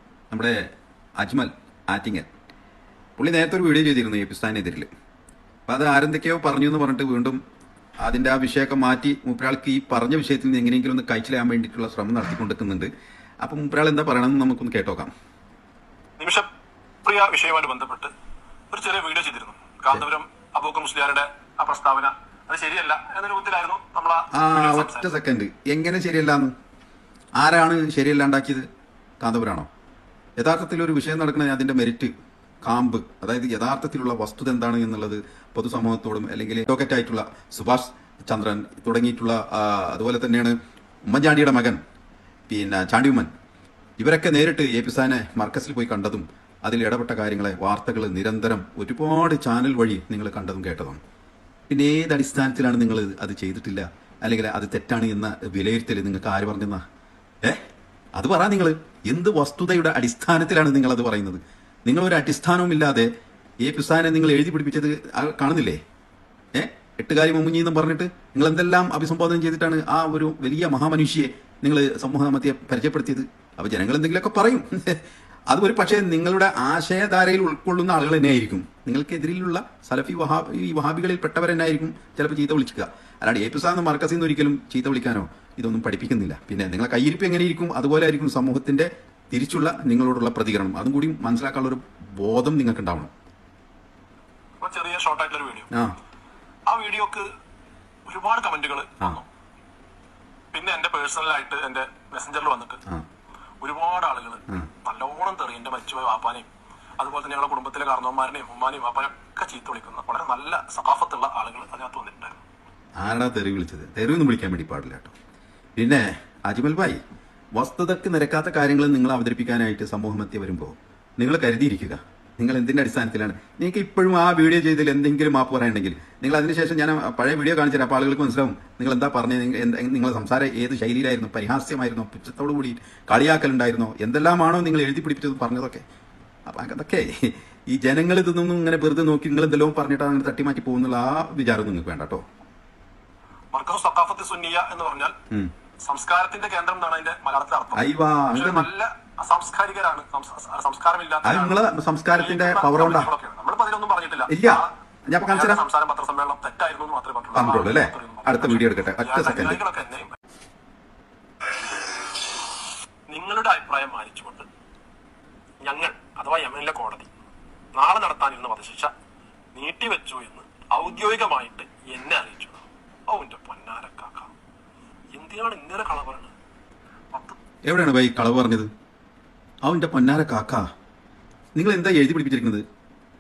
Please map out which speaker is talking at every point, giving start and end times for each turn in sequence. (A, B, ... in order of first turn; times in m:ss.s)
0:00.3-0:02.3 A
0:03.2-0:04.9 A
0:05.7-0:07.4 A
0:08.0-0:12.9 A
0:13.4-0:15.1 A
0:16.2-0:16.5 B
0:17.0-0:18.1 B
0:18.7-0:25.1 B
0:24.3-0:26.5 A
0:27.4-0:28.7 A
0:29.2-0:29.7 A
0:30.4-0:32.1 A
0:32.6-0:41.8 A
0:42.5-0:43.3 A
0:44.0-0:51.0 A
0:51.7-0:56.8 A
0:58.2-1:03.1 A
1:03.6-1:05.8 A
1:06.5-1:33.1 A
1:34.6-1:35.7 B
1:36.7-1:37.3 B
1:38.1-1:39.3 B
1:40.5-1:42.8 B
1:43.6-1:46.5 B
1:47.0-1:52.4 B
1:53.0-1:55.1 A
1:55.8-1:57.0 A
1:57.5-2:15.8 A
2:16.5-2:22.2 A
2:23.5-2:25.2 B
2:25.8-2:31.6 B
2:27.7-2:28.7 A
2:31.2-2:33.1 A
2:32.1-2:34.7 B
2:34.3-2:35.6 A
2:35.3-2:40.2 B
2:37.4-2:39.6 A
2:43.1-2:44.5 B
2:45.6-2:47.1 B
2:47.7-2:48.9 B
2:49.5-2:54.3 B
2:55.1-2:56.3 B
2:57.6-2:58.7 A
2:59.6-3:00.7 A
3:01.6-3:02.6 A